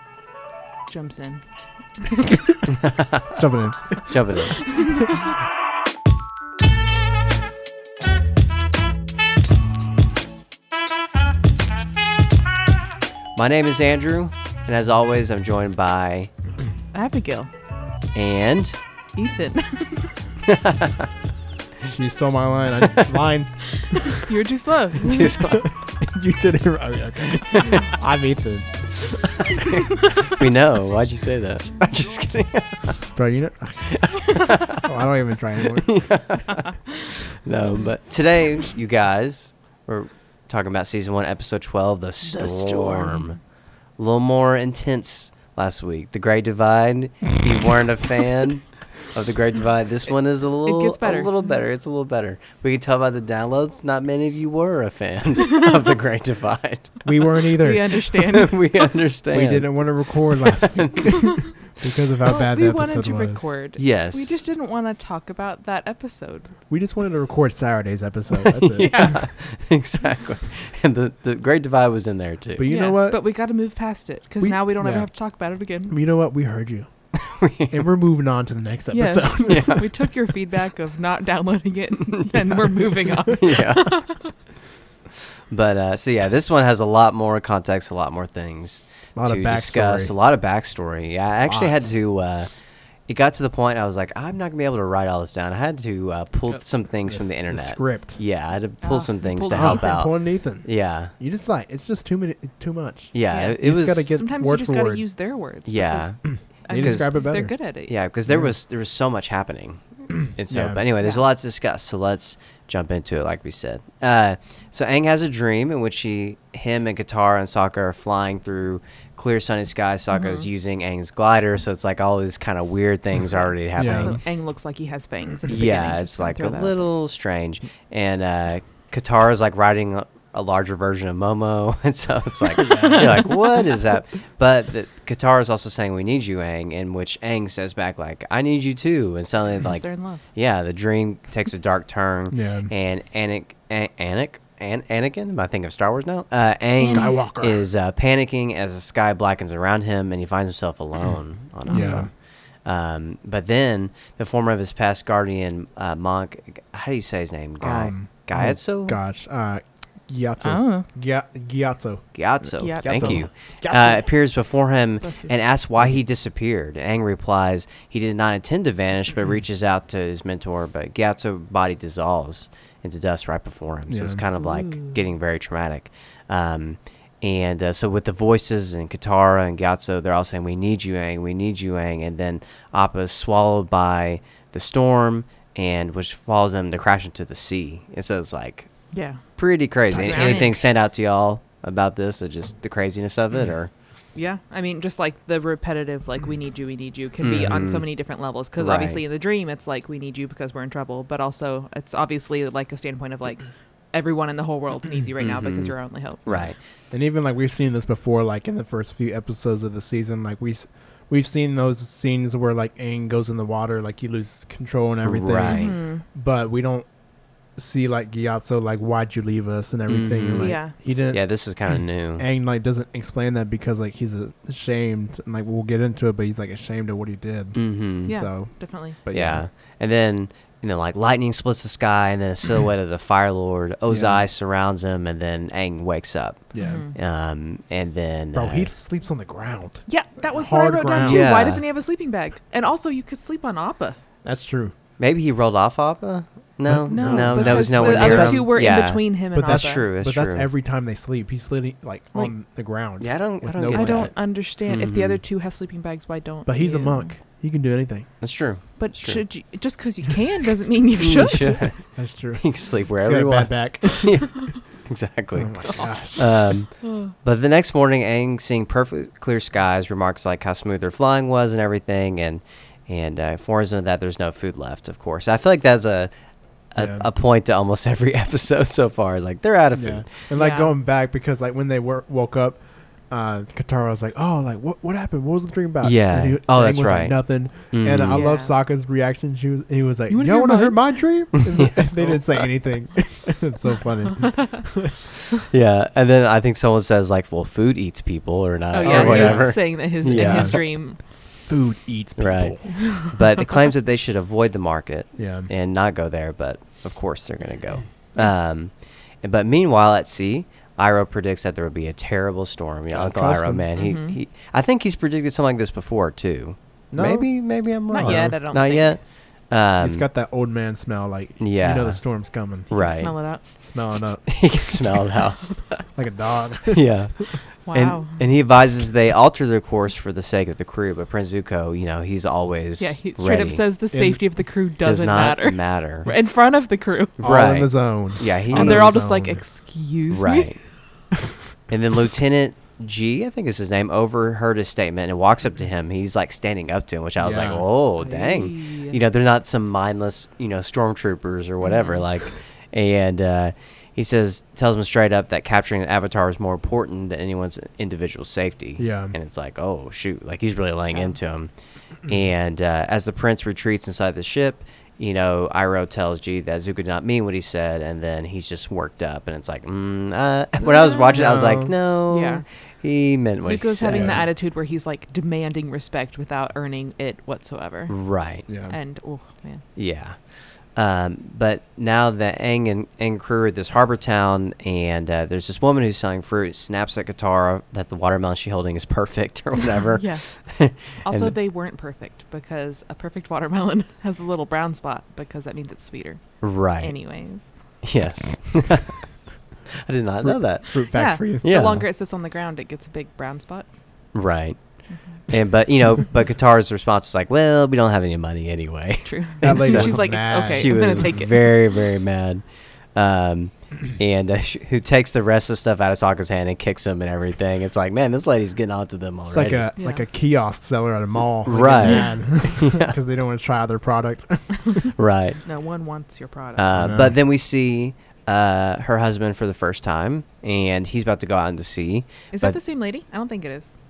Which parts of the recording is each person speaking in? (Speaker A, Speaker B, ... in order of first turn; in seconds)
Speaker A: 0.9-2.0, 4.8-5.1, 16.9-17.5, 19.1-20.2, 23.8-25.5, 42.3-43.4, 50.6-51.5, 57.6-58.7, 62.2-66.6, 68.9-69.2, 72.6-76.0, 78.9-84.3, 98.8-99.9, 103.3-108.0, 111.0-111.2, 120.1-120.5, 123.3-127.0, 132.7-133.1, 139.6-140.2, 146.8-147.2, 151.7-152.1, 160.4-160.9, 162.6-163.3, 165.0-165.4, 174.3-175.0, 188.9-190.7, 194.1-206.5, 215.5-216.0, 220.4-220.7, 228.0-229.0, 236.6-236.9, 239.9-244.0, 246.9-249.8, 252.1-252.4, 253.5-257.1, 258.8-261.8, 265.7-267.1, 280.3-280.7, 288.1-288.5, 290.1-291.4, 292.0-292.3, 298.7-301.0, 302.8-303.1, 313.8-314.1, 317.9-319.0, 322.7-323.4, 327.6-328.2, 332.8-337.7, 338.5-340.8, 347.9-349.0, 351.6-352.1, 360.9-361.5, 370.6-371.4, 372.1-372.9, 373.4-379.6, 390.0-397.9, 400.9-404.3, 404.9-405.5, 409.0-411.6, 419.8-420.1, 421.8-422.7, 425.4-426.9, 432.3-433.7
Speaker B: 2.8-3.4, 4.0-4.8, 13.3-16.3, 18.1-18.8, 20.5-20.9, 25.0-25.7, 30.3-33.1, 33.9-34.8, 35.9-57.5, 58.4-61.4, 63.8-64.4, 68.5-72.7, 77.3-77.9, 79.5-79.9, 83.4-84.4, 85.5-101.1, 103.1-104.2, 105.6-124.2, 125.5-159.0, 162.1-193.7, 197.2-199.0, 205.2-206.6, 215.0-215.8, 219.9-222.2, 227.5-238.7, 241.0-241.7, 245.0-250.5, 253.0-255.2, 258.2-259.2, 261.0-280.2, 285.8-288.3, 291.4-292.3, 295.5-300.7, 302.2-320.1, 321.4-323.7, 324.3-326.1, 326.7-333.7, 334.8-336.1, 337.2-338.9, 340.1-341.0, 341.7-374.3, 377.9-378.5, 379.7-391.4, 396.4-399.1, 399.9-401.8, 404.1-419.7, 421.4-423.0, 425.0-425.4, 426.6-432.6
Speaker C: 3.3-4.5, 21.8-24.1, 25.6-29.2, 33.1-36.4, 57.0-58.1, 59.3-63.6, 66.7-69.3, 72.5-73.7, 74.4-80.0, 89.1-90.1, 91.4-92.0, 96.5-98.2, 99.5-105.0, 106.3-107.7, 108.2-108.5, 110.5-110.8, 123.7-124.2, 132.6-133.2, 142.3-142.7, 146.8-147.7, 151.7-152.1, 157.6-164.1, 173.9-174.2, 189.9-190.6, 206.3-229.5, 233.9-234.3, 236.5-236.9, 238.3-241.6, 244.2-244.7, 246.7-254.1, 256.4-258.2, 261.6-264.3, 265.3-266.6, 276.7-277.1, 279.7-294.9, 298.8-302.8, 305.1-305.5, 312.9-313.7, 316.9-318.4, 319.8-324.7, 325.9-327.2, 333.9-334.3, 337.2-339.4, 347.2-347.7, 358.8-359.1, 371.1-371.9, 373.9-374.3, 378.5-378.8, 400.2-401.9, 409.4-411.2, 419.2-424.9, 426.7-427.2